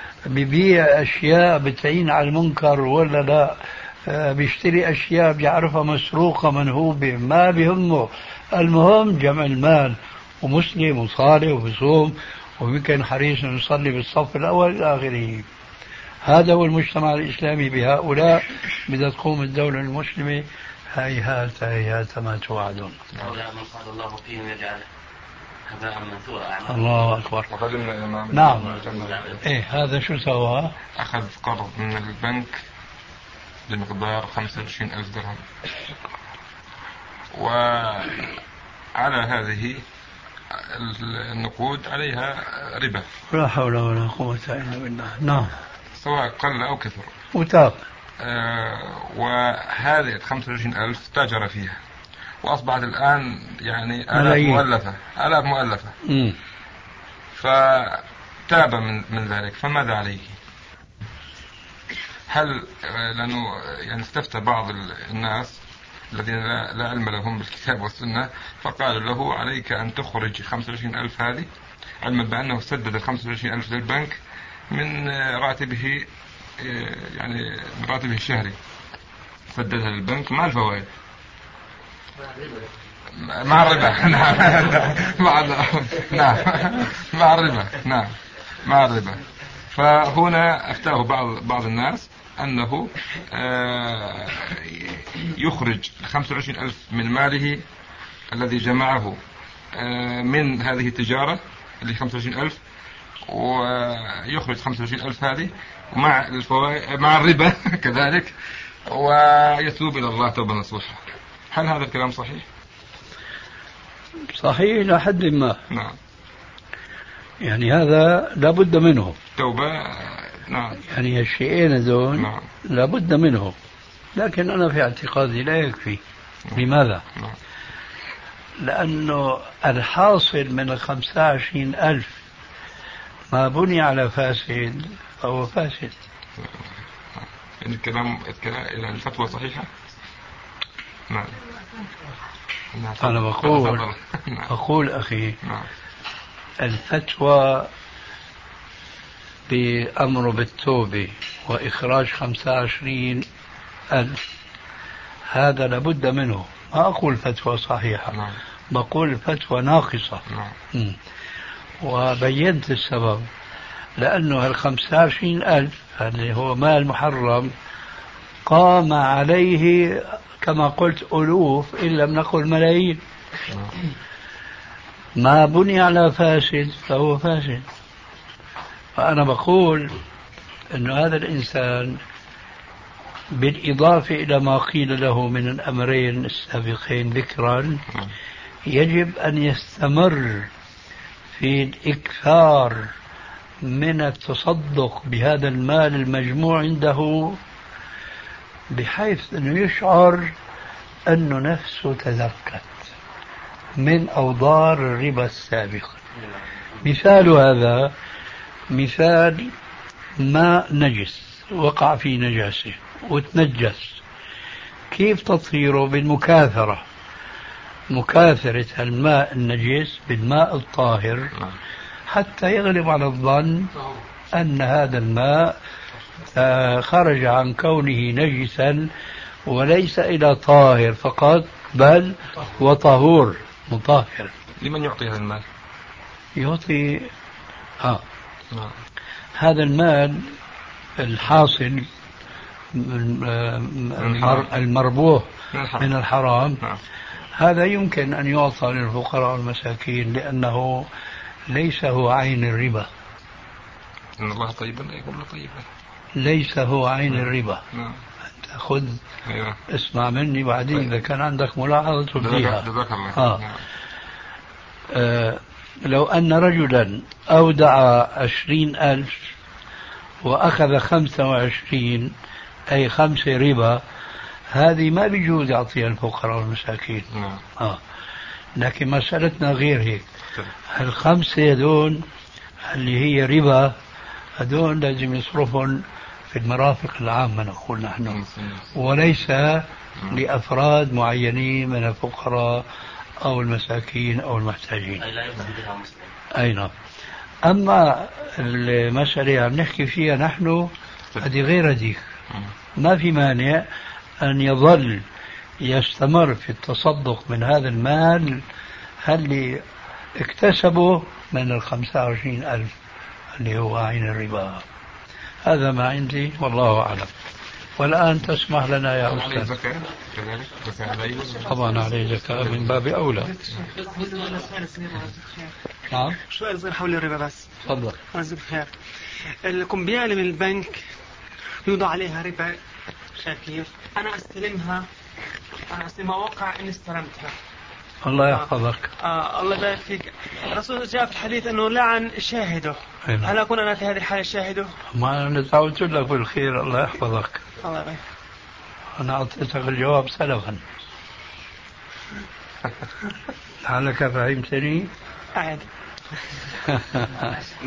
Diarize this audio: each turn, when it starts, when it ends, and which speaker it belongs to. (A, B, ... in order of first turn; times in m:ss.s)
0:00.3-0:15.4 A
0:16.2-0:23.0 A
0:23.2-0:24.8 B
0:25.7-0:27.1 B
0:26.7-0:27.5 A
0:27.5-0:29.4 C
0:28.3-0:28.7 A
0:28.8-0:29.4 B
0:29.4-0:30.7 A
0:31.0-0:32.6 C
0:33.7-0:35.4 C
0:37.3-0:38.3 C
0:38.9-0:39.8 C
0:40.5-0:43.0 C
0:43.3-0:45.5 A
0:45.9-0:47.1 C
0:47.3-0:47.8 A
0:48.2-0:51.8 C
0:52.4-0:56.0 C
0:54.1-0:54.6 A
0:56.0-0:56.4 A
0:57.4-1:00.3 C
1:02.3-1:05.6 C
1:06.1-1:11.5 C
1:12.0-1:14.2 C
1:14.7-1:18.6 C
1:19.5-1:20.9 C
1:23.1-1:37.6 C
1:38.3-1:39.2 C
1:39.7-1:42.6 C
1:43.3-1:48.3 C
1:48.8-1:52.4 C
1:54.3-1:55.6 A
1:55.7-1:56.0 C
1:57.4-1:59.2 A
1:59.4-2:00.8 C
2:00.9-2:03.5 A
2:02.2-2:02.4 C
2:04.1-2:06.0 A
2:06.5-2:07.0 A
2:08.6-2:12.1 A
2:13.3-2:16.0 A
2:16.4-2:19.7 C
2:21.1-2:21.4 C
2:22.7-2:24.5 C
2:23.0-2:23.8 A
2:24.5-2:25.4 A
2:25.4-2:25.7 C
2:26.6-2:27.7 A
2:29.5-2:33.3 A
2:33.9-2:34.2 A
2:35.3-2:38.1 A
2:38.7-2:41.0 A
2:40.3-2:40.5 C
2:41.8-2:43.3 A
2:44.0-2:47.5 A
2:48.4-2:53.0 A
2:55.2-2:57.6 A
2:59.0-3:00.0 A
3:00.7-3:02.0 A
3:03.3-3:07.8 A
3:08.6-3:10.5 A
3:11.4-3:12.9 A
3:13.6-3:17.4 A
3:18.7-3:20.3 A
3:21.1-3:22.8 A
3:23.8-3:26.0 A
3:26.8-3:27.9 A
3:28.7-3:29.5 A
3:30.2-3:34.0 A
3:34.9-3:36.8 A
3:37.9-3:41.3 A
3:42.1-3:43.7 A
3:44.3-3:45.5 A
3:46.3-3:48.9 A
3:49.5-3:54.3 A
3:54.6-3:55.4 C
3:56.4-3:57.1 A
3:59.4-4:00.3 A
4:01.0-4:01.9 A
4:02.7-4:05.2 A
4:04.0-4:04.5 C
4:05.5-4:05.9 C
4:05.8-4:06.6 A
4:07.4-4:10.9 A
4:11.5-4:12.9 A
4:14.2-4:15.7 C
4:16.2-4:17.6 A
4:17.7-4:18.0 C
4:18.4-4:19.0 A
4:19.2-4:19.6 C
4:19.7-4:23.4 A
4:22.2-4:23.6 C
4:24.9-4:29.2 A
4:30.2-4:32.1 A
4:32.7-4:33.8 A
4:34.5-4:37.0 A
4:37.1-4:37.4 C
4:38.6-4:40.1 A
4:40.7-4:42.0 A
4:42.6-4:43.7 A
4:44.4-4:48.2 A
4:48.1-4:48.7 C
4:48.7-4:52.6 A
4:53.2-4:55.0 A
4:55.0-4:56.1 B
4:56.3-4:56.7 A
4:57.4-5:02.0 A
5:02.8-5:03.6 A
5:04.2-5:05.0 A
5:05.6-5:08.4 A
5:09.0-5:09.6 A
5:10.2-5:12.7 A
5:13.4-5:14.6 A
5:15.4-5:17.1 A
5:17.8-5:19.5 A
5:19.0-5:21.7 C
5:21.4-5:23.3 A
5:22.2-5:22.8 C
5:23.3-5:25.5 D
5:25.9-5:26.2 A
5:26.2-5:27.5 D
5:27.6-5:28.0 A
5:28.1-5:28.7 D
5:29.4-5:30.8 D
5:31.6-5:32.6 D
5:33.2-5:34.8 D
5:35.7-5:37.3 D
5:38.0-5:38.9 A
5:39.0-5:44.7 D
5:43.1-5:43.3 A
5:44.9-5:47.4 A
5:47.6-5:48.0 D
5:49.0-5:50.6 A
5:53.6-5:54.9 A
5:55.3-5:55.6 D
5:56.7-5:57.3 A